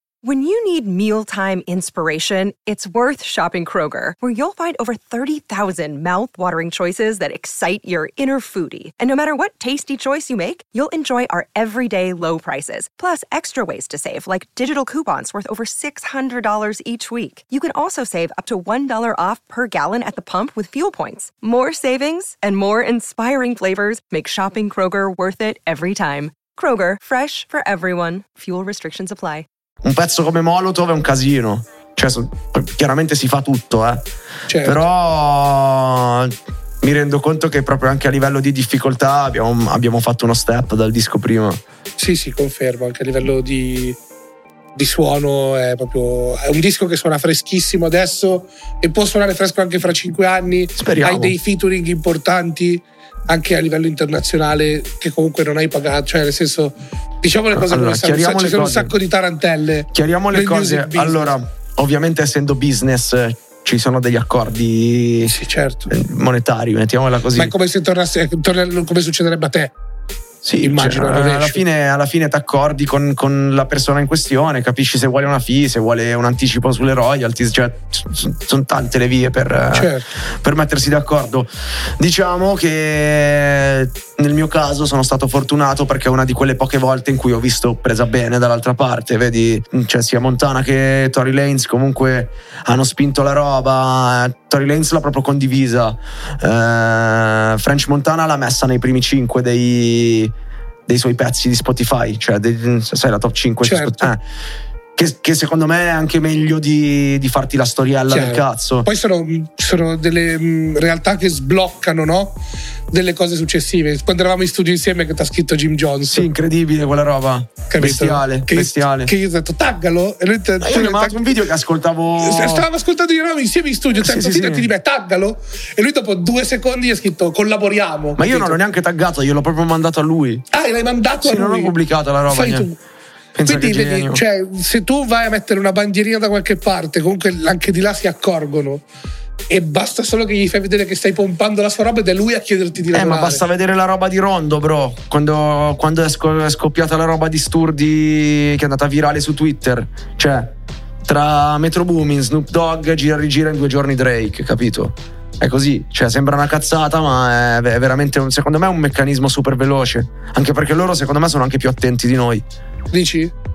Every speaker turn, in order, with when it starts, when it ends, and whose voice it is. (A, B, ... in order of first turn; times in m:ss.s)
0:00.2-0:29.5 A
0:29.8-0:34.0 B
0:34.5-0:34.8 C
0:34.6-0:41.6 B
0:42.0-0:44.0 C
0:44.7-1:01.3 C
0:50.8-0:51.4 B
0:57.5-0:58.9 B
0:59.9-1:05.3 B
1:05.2-1:05.9 C
1:05.9-1:07.5 B
1:07.3-1:09.7 C
1:10.4-1:40.3 B
1:10.6-1:11.6 C
1:19.7-1:20.1 C
1:40.9-1:44.2 B
1:43.6-1:44.1 C
1:45.0-1:48.9 B
1:48.1-1:52.4 C
1:52.9-1:56.3 C
1:56.1-1:59.1 B
1:57.7-2:01.2 C
2:00.6-2:02.6 B
2:02.2-2:08.6 C
2:04.0-2:04.7 B
2:08.2-2:10.4 B
2:10.5-2:11.7 C
2:11.2-2:12.7 B
2:12.3-2:12.8 C
2:13.3-2:14.2 B
2:13.4-2:18.8 C
2:19.5-2:23.4 C
2:22.9-2:42.4 B
2:42.9-2:43.3 C